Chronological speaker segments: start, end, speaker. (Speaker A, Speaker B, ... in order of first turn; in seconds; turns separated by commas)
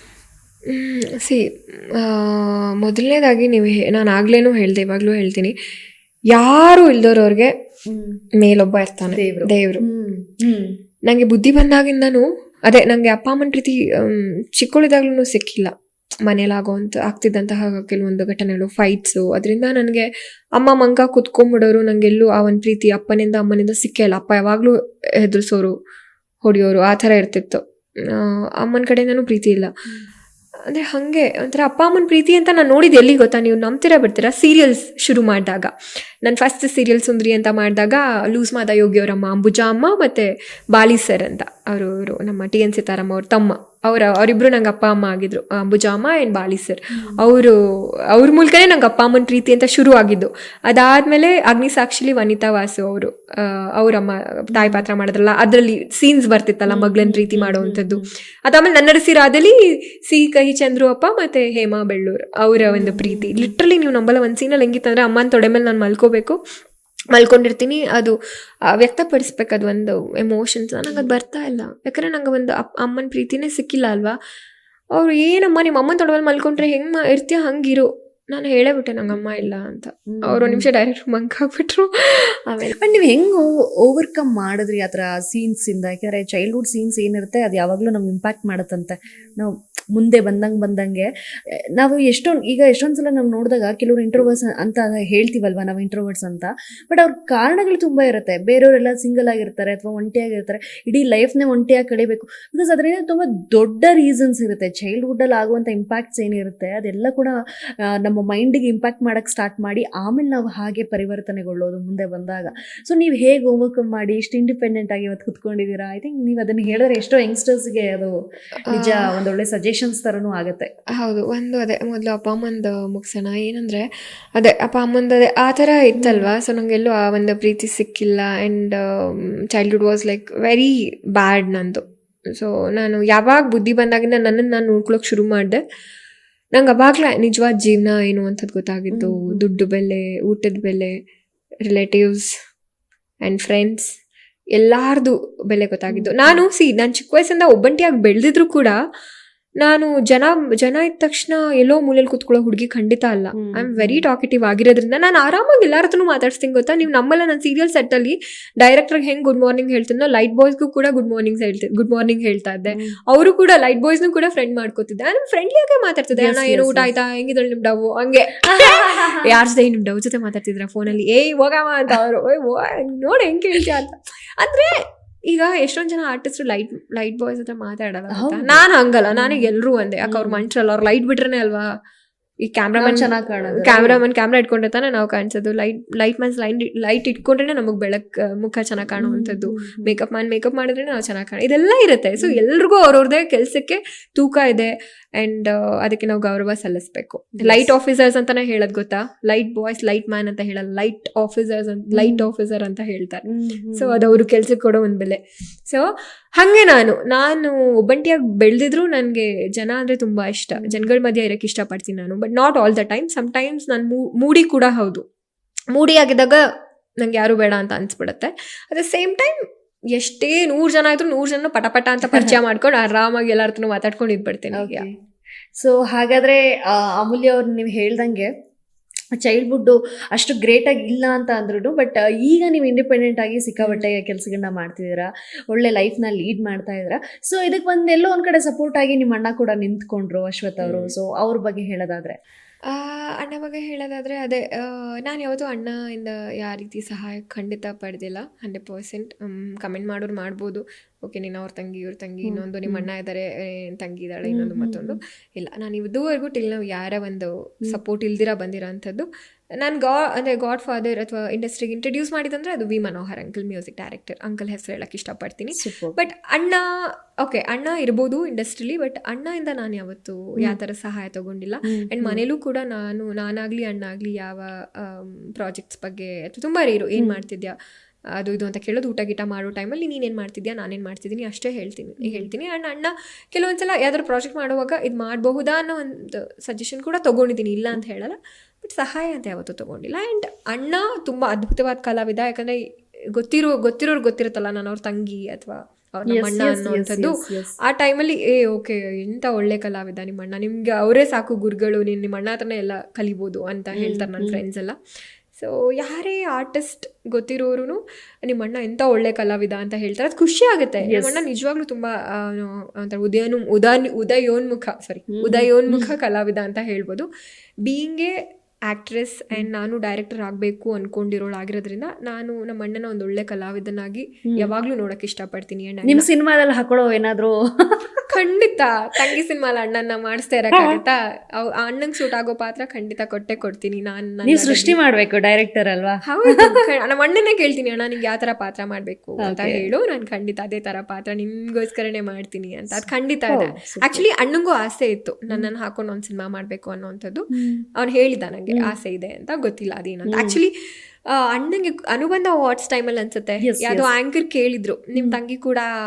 Speaker A: 0.7-1.4, Speaker A: 1.9-5.5, Speaker A: 6.3-7.5, Speaker B: 7.9-8.2, Speaker A: 8.4-9.8, Speaker B: 9.1-10.7, Speaker A: 11.1-15.7, Speaker A: 16.3-20.1, Speaker A: 20.6-25.7, Speaker A: 26.4-29.7, Speaker A: 30.7-35.7, Speaker A: 36.2-47.5, Speaker B: 46.9-47.2, Speaker A: 48.1-59.5, Speaker B: 54.5-54.8, Speaker B: 56.7-58.0, Speaker A: 60.1-66.4, Speaker B: 62.6-63.5, Speaker A: 67.1-68.1, Speaker A: 68.7-74.2, Speaker A: 75.0-82.8, Speaker B: 80.1-80.7, Speaker B: 82.8-91.1, Speaker B: 91.8-107.3, Speaker B: 108.0-118.1, Speaker A: 118.7-119.0, Speaker B: 118.7-120.7, Speaker A: 121.0-135.6, Speaker B: 126.0-126.3, Speaker A: 136.5-140.9, Speaker B: 138.9-139.4, Speaker A: 141.7-142.3, Speaker A: 143.2-143.9, Speaker A: 144.5-148.8, Speaker B: 145.9-146.4, Speaker A: 149.6-174.7, Speaker B: 153.3-154.0, Speaker B: 162.7-163.0, Speaker B: 166.1-166.9, Speaker B: 168.5-169.3, Speaker A: 175.3-181.7, Speaker B: 178.1-179.5, Speaker B: 180.0-180.4, Speaker A: 182.4-203.2, Speaker B: 182.8-184.0, Speaker B: 189.0-189.9, Speaker B: 197.4-197.7, Speaker B: 201.9-202.3, Speaker B: 203.3-204.1, Speaker A: 203.8-205.8, Speaker A: 206.4-215.0, Speaker B: 210.6-210.8, Speaker A: 215.7-216.4, Speaker A: 217.0-219.3, Speaker A: 219.9-224.8, Speaker B: 224.5-224.9, Speaker B: 225.6-228.3, Speaker B: 229.2-242.2, Speaker A: 240.6-240.9, Speaker A: 242.7-259.1, Speaker B: 252.2-252.9, Speaker B: 254.3-255.0, Speaker A: 259.6-266.6, Speaker B: 265.6-266.0, Speaker A: 267.2-277.5, Speaker B: 271.7-272.2, Speaker A: 278.2-292.6, Speaker A: 293.1-297.1, Speaker B: 296.1-297.6, Speaker A: 297.7-304.8, Speaker B: 303.8-304.4, Speaker A: 305.4-317.1, Speaker B: 310.8-311.2, Speaker B: 315.1-315.9, Speaker A: 317.6-318.1, Speaker A: 318.7-326.1, Speaker B: 325.9-328.0, Speaker A: 328.1-334.8, Speaker B: 330.5-330.8, Speaker B: 334.2-336.5, Speaker A: 336.1-347.2, Speaker B: 339.2-339.7, Speaker B: 342.7-344.0, Speaker B: 347.3-347.6, Speaker A: 347.8-350.5, Speaker B: 350.1-350.4, Speaker A: 351.2-355.7, Speaker B: 353.4-353.9